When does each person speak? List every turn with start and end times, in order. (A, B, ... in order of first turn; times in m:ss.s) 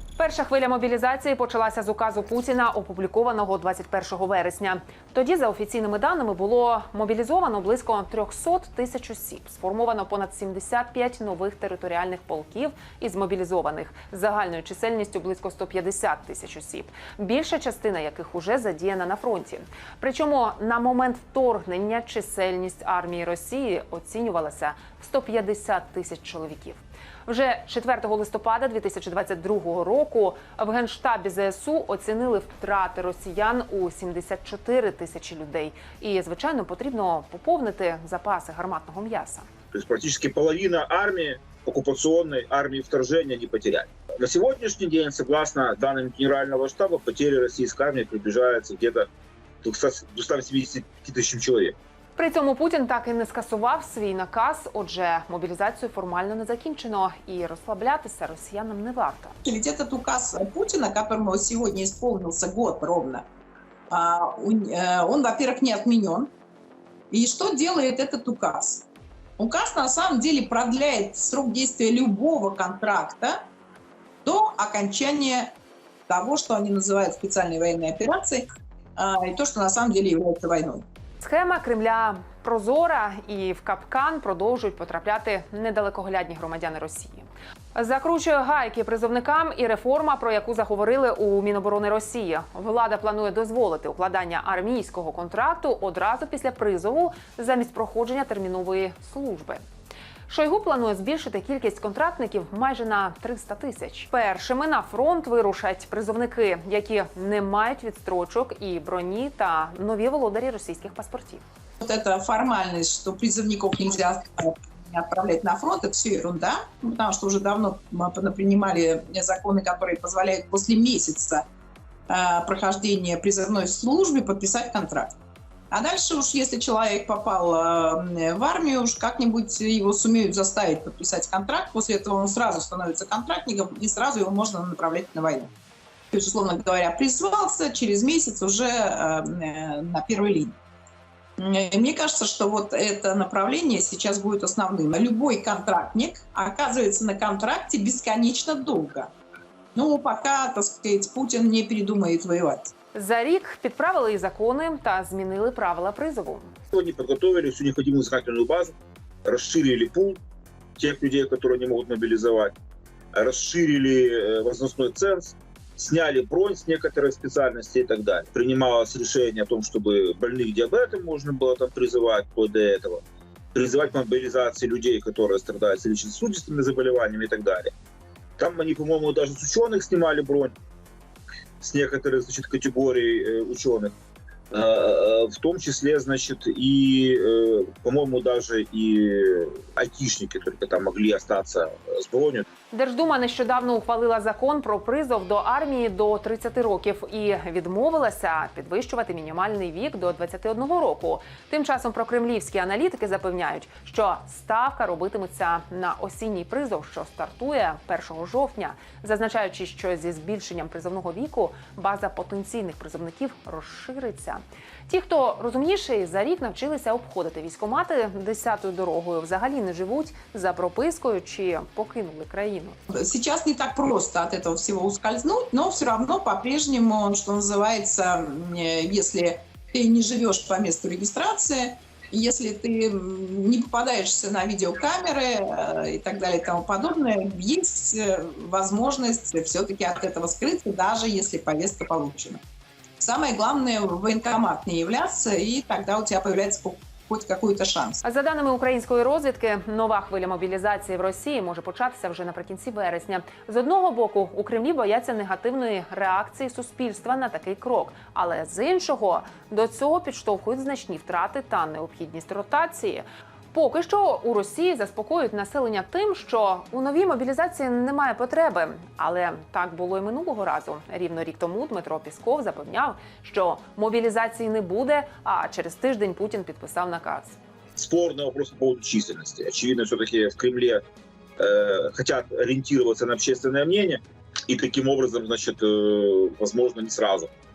0:00.2-0:39.4 A
0:39.7-0:49.1 B
0:49.6-0:51.8 B
0:52.2-0:59.4 A
0:59.4-1:03.2 C
1:03.9-1:06.3 C
1:07.1-1:08.9 C
1:09.4-1:13.4 C
1:14.2-1:15.5 C
1:16.1-1:18.4 C
1:19.0-1:20.8 C
1:21.2-1:39.6 A
1:40.3-1:51.4 A
1:51.8-2:01.4 C
2:02.1-2:05.1 C
2:05.7-2:15.5 C
2:16.1-2:20.6 C
2:21.4-2:29.1 C
2:29.8-2:32.7 C
2:32.9-2:36.5 A
2:36.7-2:38.7 B
2:39.2-2:40.2 B
2:40.8-2:42.5 B
2:43.1-2:53.0 B
2:53.5-2:57.7 B
2:58.4-3:00.6 B
3:01.6-3:03.9 B
3:04.5-3:12.5 B
3:12.7-3:42.8 A
3:42.9-4:02.4 C
4:03.0-4:08.0 C
4:08.0-4:37.4 A
4:37.8-4:40.8 B
4:41.4-4:47.3 B